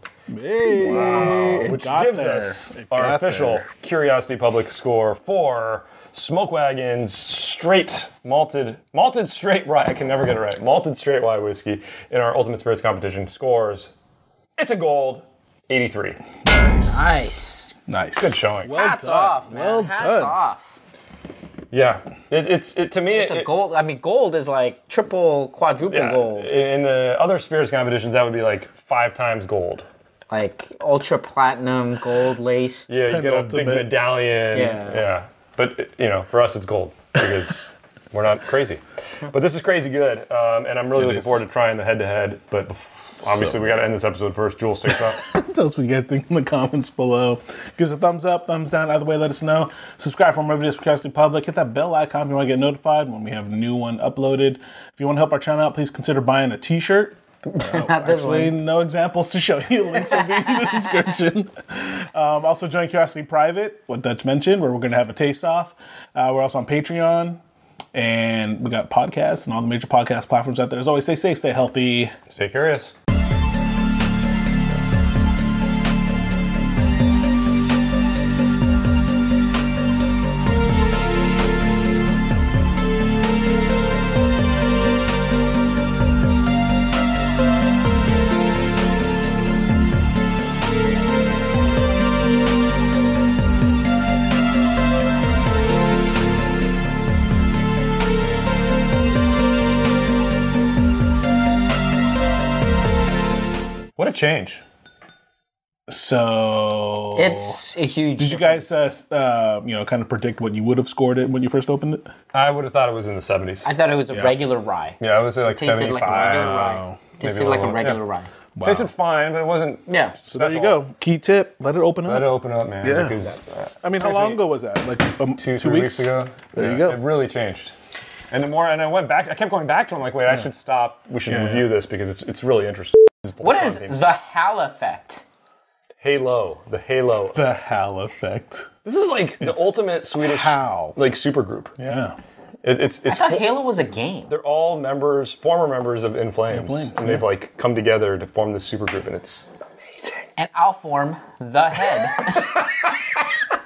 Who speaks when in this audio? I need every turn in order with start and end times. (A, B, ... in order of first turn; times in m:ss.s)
0:00.3-0:03.6 A
0:00.8-0:13.9 B
0:14.6-0:16.2 B
0:16.4-0:17.0 A
0:16.8-0:17.7 C
0:17.9-0:20.4 A
0:18.2-0:18.8 B
0:18.7-0:20.8 C
0:21.7-0:23.5 B
0:23.1-0:26.5 C
0:25.9-0:29.8 B
0:30.3-0:33.0 C
0:32.9-0:45.2 B
0:33.0-0:34.0 A
0:34.5-0:35.0 C
0:41.0-0:41.4 A
0:43.2-0:43.7 A
0:44.9-1:07.4 A
0:57.5-0:58.6 C
1:07.9-1:12.1 A
1:12.3-1:12.9 B
1:44.0-1:44.6 B
1:45.9-1:47.6 A
1:47.1-1:48.8 C
1:48.2-1:52.1 A
1:52.3-1:53.7 B
1:53.6-1:58.3 C
1:54.1-1:54.4 A
1:55.0-1:58.0 B
1:56.0-1:57.0 A
1:58.6-1:58.9 A
1:58.6-2:00.8 B
1:59.9-2:00.2 C
2:00.3-2:03.2 A
2:02.0-2:04.4 B
2:03.8-2:07.0 A
2:05.4-2:07.7 B
2:08.3-2:14.0 B
2:11.2-2:11.7 A
2:13.4-2:15.2 C
2:16.0-2:17.4 B
2:17.3-2:18.7 A
2:18.8-2:21.7 B
2:19.4-2:21.0 A
2:21.8-2:22.2 A
2:22.6-2:23.5 B
2:23.0-2:24.3 C
2:24.3-2:29.5 B
2:26.5-2:27.2 A
2:30.4-2:32.6 C
2:32.2-2:33.2 B